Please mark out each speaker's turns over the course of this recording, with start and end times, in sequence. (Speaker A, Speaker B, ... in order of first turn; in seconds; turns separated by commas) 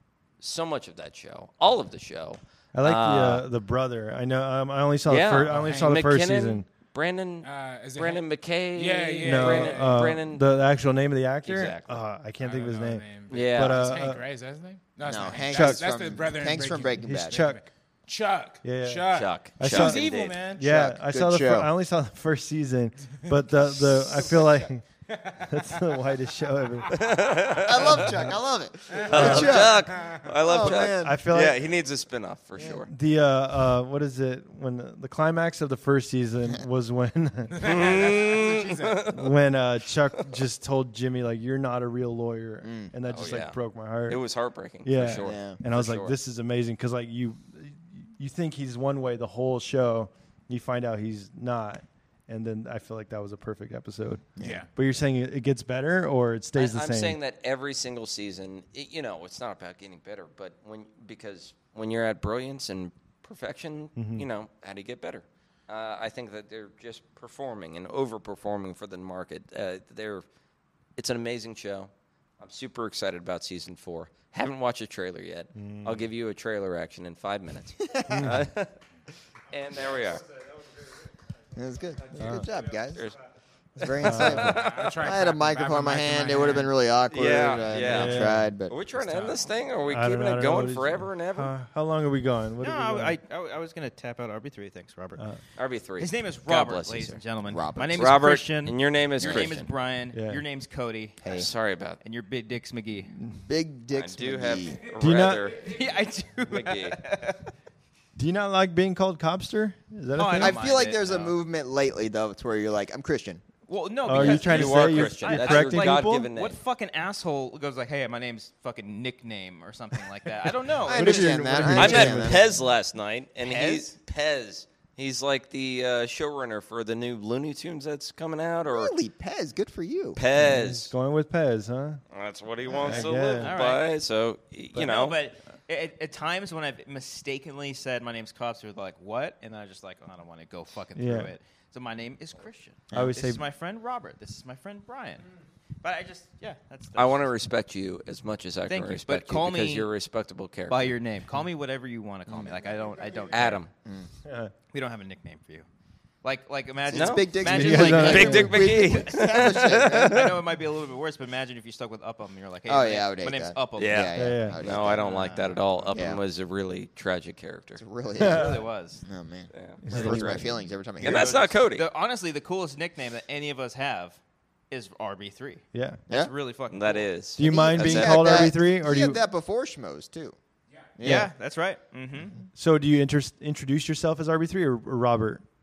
Speaker A: 0.4-3.5, Speaker B: 2.8-6.7, Speaker A: 5.1-10.4, Speaker C: 5.4-6.0, Speaker C: 7.4-10.1, Speaker B: 9.2-14.2, Speaker A: 11.4-12.0, Speaker C: 12.4-20.8, Speaker A: 13.3-14.0, Speaker D: 15.1-17.4, Speaker B: 15.4-16.0, Speaker B: 17.0-17.6, Speaker B: 18.6-24.9, Speaker A: 19.1-20.4, Speaker D: 20.6-21.7, Speaker C: 23.2-26.0, Speaker B: 25.4-26.9, Speaker A: 26.9-28.2, Speaker D: 27.6-31.2, Speaker A: 28.9-32.9, Speaker C: 28.9-30.3, Speaker B: 29.1-29.6, Speaker B: 30.6-31.6, Speaker D: 32.6-32.8, Speaker B: 32.9-37.7, Speaker C: 37.5-39.2, Speaker A: 37.6-39.3, Speaker B: 39.1-44.2, Speaker D: 42.6-42.9, Speaker A: 43.1-46.1, Speaker B: 44.8-57.2, Speaker D: 45.2-45.6, Speaker D: 54.4-54.6, Speaker C: 54.4-54.7, Speaker A: 56.5-70.2, Speaker B: 64.0-64.2, Speaker A: 71.0-78.8, Speaker B: 75.6-76.0, Speaker D: 77.8-78.3, Speaker B: 78.1-78.4, Speaker A: 79.5-80.2, Speaker D: 81.5-83.1, Speaker B: 82.2-82.5, Speaker A: 82.9-83.2, Speaker D: 83.8-88.8, Speaker A: 83.8-85.1, Speaker B: 84.0-84.5, Speaker C: 84.4-86.8, Speaker A: 87.1-91.5, Speaker B: 87.8-88.5, Speaker B: 89.9-93.2, Speaker E: 92.6-95.2, Speaker A: 95.6-97.2, Speaker E: 96.0-101.5, Speaker D: 97.5-98.2, Speaker A: 97.9-99.7, Speaker D: 99.2-99.6, Speaker B: 100.1-100.4, Speaker D: 101.2-101.5, Speaker A: 101.3-102.0, Speaker E: 102.0-103.1, Speaker D: 103.3-104.8, Speaker A: 103.9-105.8, Speaker B: 105.0-105.5, Speaker E: 105.5-107.5, Speaker A: 106.5-107.0, Speaker B: 108.2-110.6, Speaker E: 110.1-111.4, Speaker D: 110.4-113.4, Speaker E: 113.7-121.7, Speaker B: 114.1-116.3, Speaker A: 114.2-116.6, Speaker D: 120.9-122.5, Speaker B: 120.9-122.6, Speaker A: 121.7-128.9, Speaker E: 123.4-124.0, Speaker D: 128.7-130.2, Speaker A: 130.2-130.9, Speaker B: 130.4-132.0, Speaker A: 132.1-135.2, Speaker D: 132.7-133.2, Speaker B: 132.8-133.5, Speaker E: 133.3-133.9, Speaker E: 134.8-145.2, Speaker B: 141.0-141.3, Speaker B: 142.9-143.4, Speaker E: 145.8-147.3, Speaker A: 146.9-150.9, Speaker E: 148.7-149.9, Speaker E: 150.7-153.6, Speaker D: 152.3-152.5, Speaker A: 153.3-153.7, Speaker D: 153.8-154.1, Speaker B: 154.2-154.5, Speaker E: 154.7-155.7, Speaker E: 156.2-166.0, Speaker D: 156.8-160.3, Speaker A: 156.9-160.4, Speaker B: 157.4-158.7, Speaker D: 162.7-165.2, Speaker A: 163.8-167.8, Speaker B: 164.1-164.6, Speaker D: 165.9-166.2, Speaker D: 167.8-171.4, Speaker B: 168.2-168.6, Speaker E: 168.2-169.0, Speaker A: 169.5-170.4, Speaker B: 169.8-170.5, Speaker A: 171.0-171.8, Speaker E: 171.0-174.2, Speaker E: 174.7-177.1, Speaker B: 175.7-176.0, Speaker A: 176.7-178.5, Speaker B: 177.4-179.2, Speaker D: 177.4-180.4, Speaker D: 181.0-181.3, Speaker E: 181.0-182.4, Speaker B: 182.6-185.4